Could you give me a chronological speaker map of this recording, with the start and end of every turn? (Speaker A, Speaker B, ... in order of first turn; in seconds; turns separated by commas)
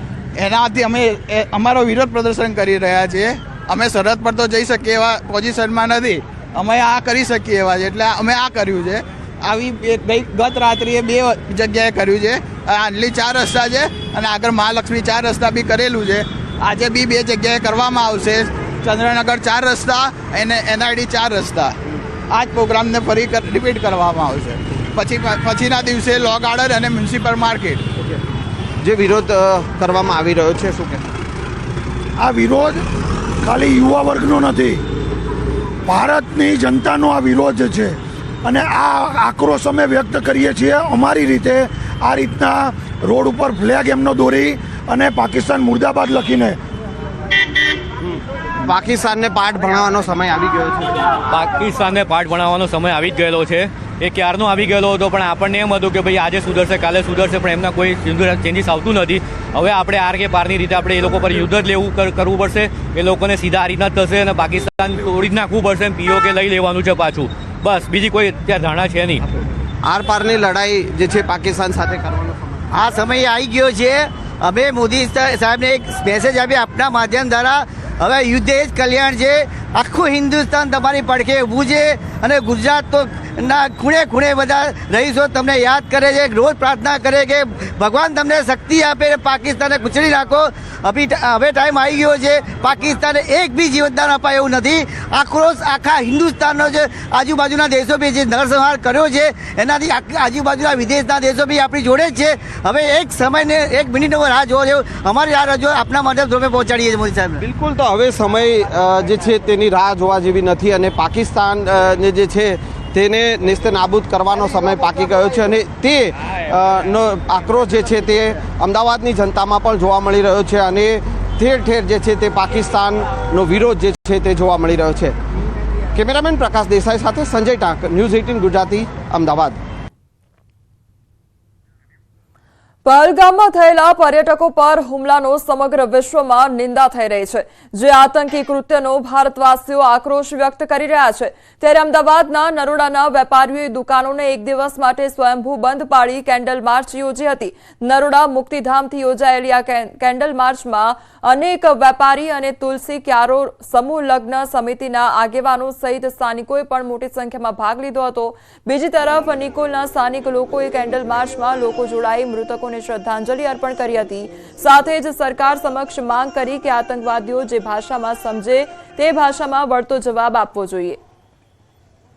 Speaker A: 0.4-21.8, Speaker A: 22.3-27.8, Speaker B: 28.8-31.0, Speaker C: 32.2-32.8, Speaker C: 33.4-34.8, Speaker C: 35.9-46.6, Speaker B: 48.0-51.0, Speaker D: 51.3-69.2, Speaker B: 69.8-72.6, Speaker E: 72.7-107.4, Speaker B: 107.4-125.1, Speaker B: 125.9-129.6, Speaker F: 132.8-171.0